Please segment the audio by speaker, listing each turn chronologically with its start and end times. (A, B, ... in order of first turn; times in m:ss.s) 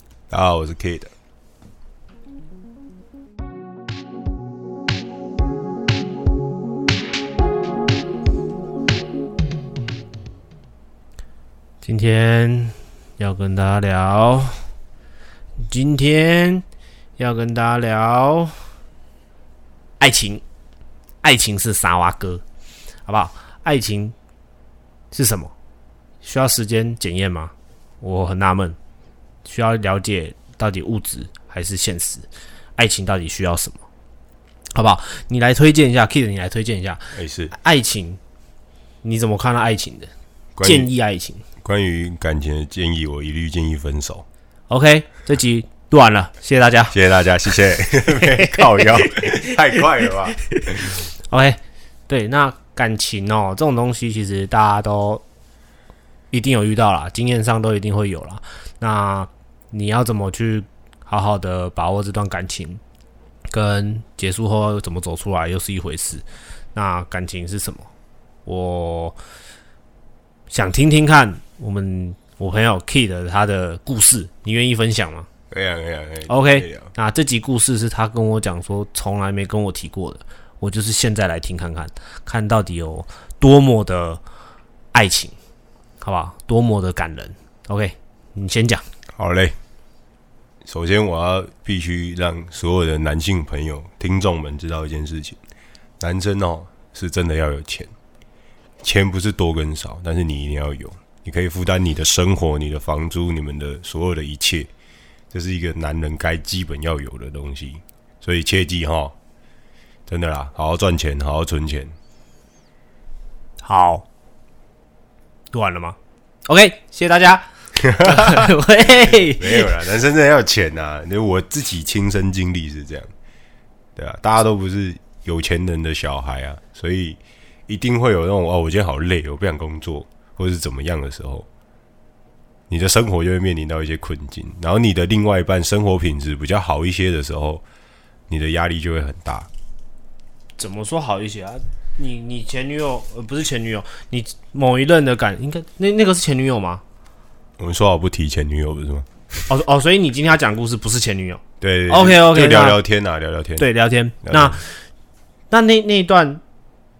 0:00.3-0:01.1 A
0:11.8-0:14.7 B
0:15.6-0:16.6 B
0:17.2-0:18.7 B
0:20.0-0:20.4 B
0:21.2-0:22.4 B
0:23.0-0:24.1 B
0:25.1-0:25.5 B
0:26.2-0:28.8 B
0:29.4-0:33.8 B
0:34.7-0:38.2 B
0:37.1-0:37.5 A
0:39.0-0:41.4 B
0:40.6-0:40.9 A
0:41.6-0:44.2 A
0:44.7-0:47.0 B
0:46.9-0:51.0 A
0:47.8-0:55.2 B
0:56.3-1:02.8 B
1:03.5-1:07.9 B
1:08.4-1:09.2 B
1:10.5-1:15.3 B
1:15.5-1:16.9 A
1:16.3-1:24.2 B
1:24.9-1:25.4 B
1:26.0-1:28.8 B
1:29.1-1:29.6 A
1:30.6-1:35.4 A
1:36.0-1:37.9 A
1:38.8-1:44.7 A
1:45.3-1:49.2 A
1:50.1-1:52.0 A
1:53.6-1:54.0 B
1:55.5-1:59.7 B
1:57.9-1:58.5 A
1:59.1-2:03.1 A
2:04.0-2:11.5 A
2:12.7-2:17.6 A
2:18.3-2:19.5 A
2:20.6-2:26.8 B
2:27.6-2:29.5 A
2:29.5-2:32.8 B
2:31.6-2:33.7 A
2:33.6-2:34.8 B
2:34.2-2:34.6 A
2:35.5-2:36.4 B